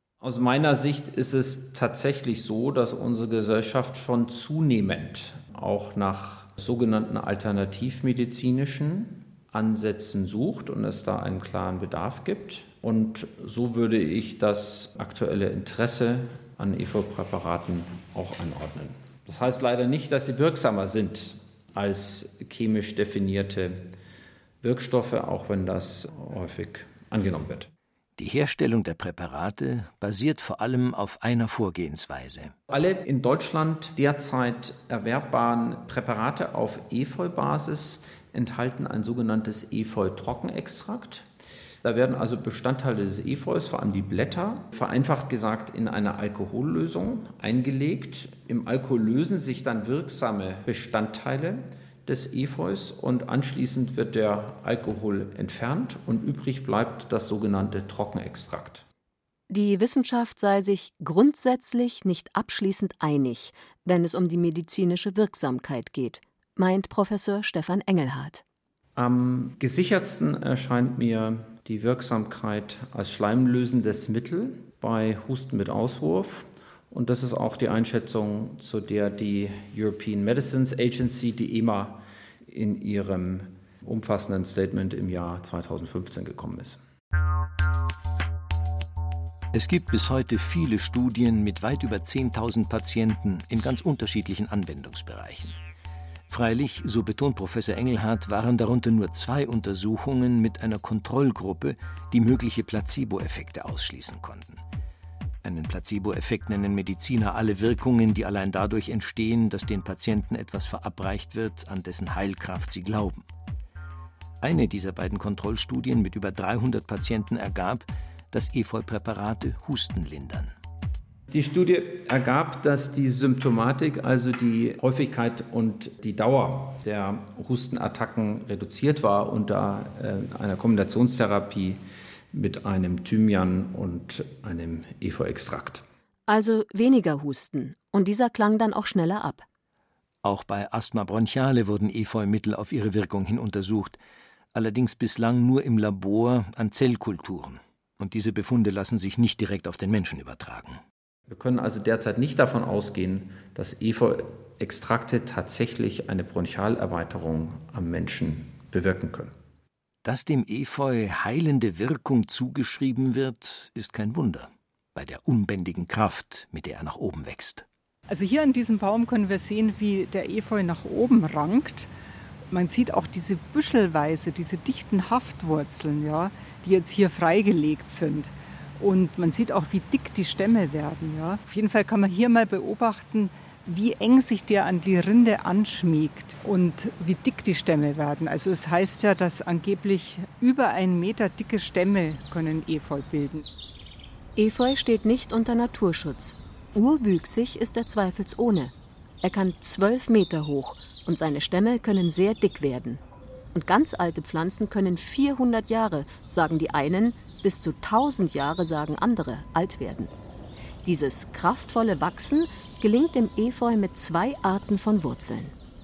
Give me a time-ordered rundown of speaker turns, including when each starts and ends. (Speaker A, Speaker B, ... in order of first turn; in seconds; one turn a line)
Speaker A: 0.2-23.9
Speaker A: 24.6-27.7
Speaker B: 28.2-32.5
Speaker A: 32.7-41.2
Speaker A: 41.8-58.8
Speaker C: 59.5-68.4
Speaker A: 69.0-86.8
Speaker B: 89.5-95.6
Speaker B: 96.3-104.6
Speaker B: 105.4-113.2
Speaker B: 114.4-120.5
Speaker A: 121.3-131.8
Speaker A: 132.3-135.8
Speaker C: 136.3-139.4
Speaker B: 140.2-144.0
Speaker B: 144.5-150.8
Speaker A: 151.3-159.3
Speaker B: 160.0-167.6
Speaker D: 168.1-171.9
Speaker D: 172.5-193.5
Speaker C: 194.3-203.0
Speaker C: 203.5-210.1
Speaker C: 210.8-215.5